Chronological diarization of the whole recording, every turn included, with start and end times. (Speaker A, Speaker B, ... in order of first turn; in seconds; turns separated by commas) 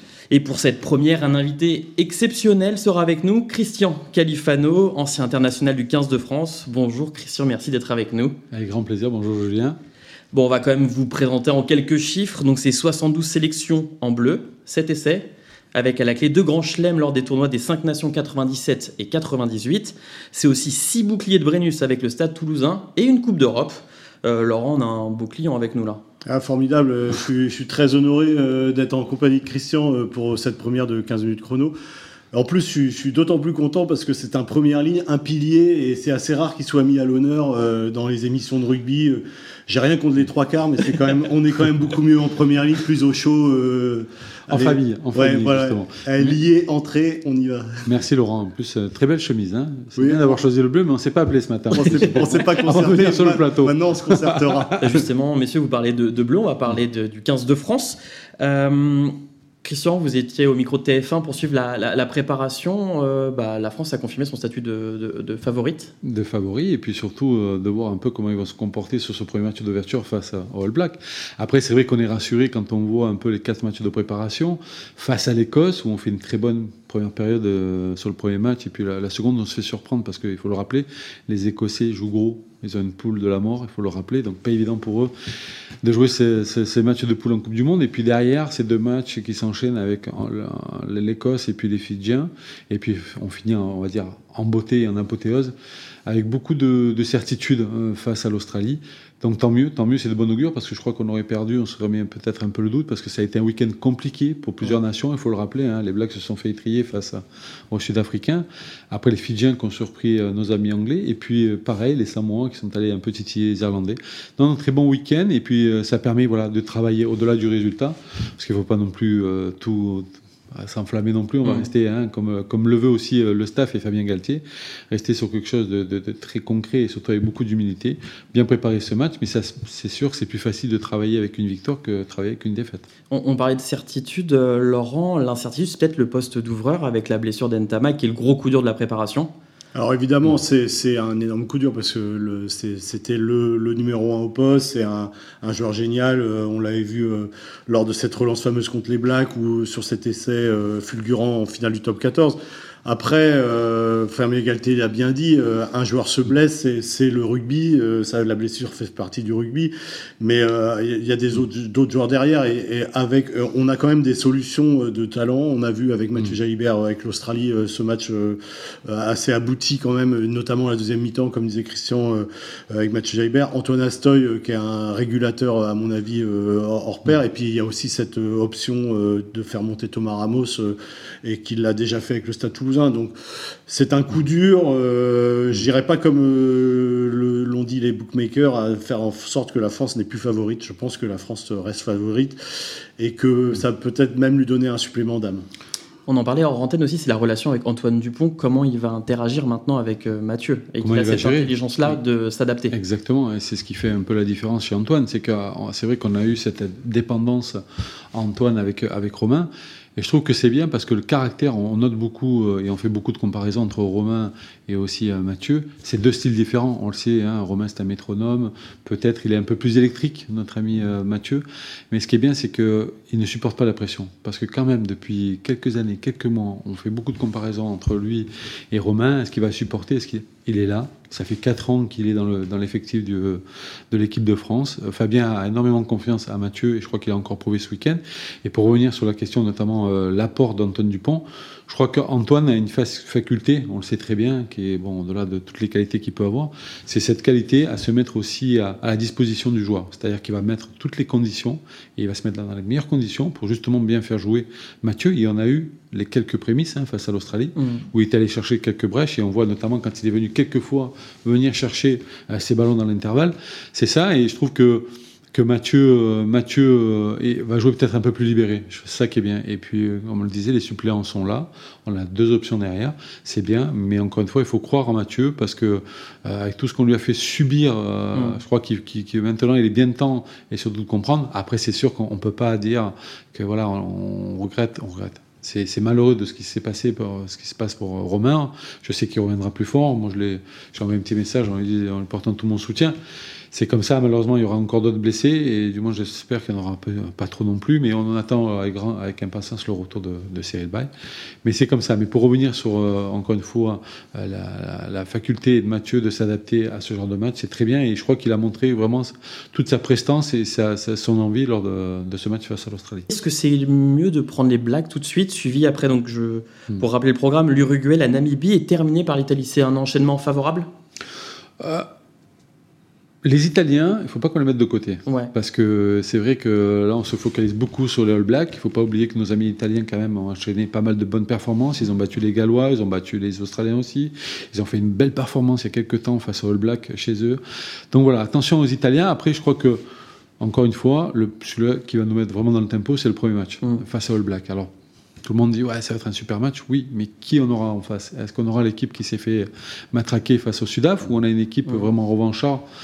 Speaker A: 0.3-8.4, Speaker B: 8.5-9.8, Speaker A: 10.3-26.0, Speaker C: 26.2-31.7, Speaker C: 32.3-47.9, Speaker B: 44.5-46.4, Speaker B: 47.9-54.7, Speaker C: 50.0-50.4, Speaker C: 51.7-54.8, Speaker A: 54.8-65.9, Speaker B: 66.0-85.1, Speaker B: 85.8-95.5, Speaker B: 96.1-132.9, Speaker A: 121.4-121.7, Speaker A: 133.1-139.3, Speaker C: 139.7-183.1, Speaker C: 183.7-192.4, Speaker C: 193.0-195.4, Speaker A: 196.1-202.8, Speaker B: 200.8-202.0, Speaker B: 202.7-207.6, Speaker B: 208.1-293.0, Speaker A: 257.6-257.8, Speaker A: 278.1-278.4, Speaker B: 293.5-300.9, Speaker B: 301.4-313.1, Speaker A: 313.1-320.7, Speaker B: 321.6-321.9, Speaker B: 323.2-339.8, Speaker A: 325.1-325.3, Speaker B: 340.4-344.7, Speaker B: 345.2-352.6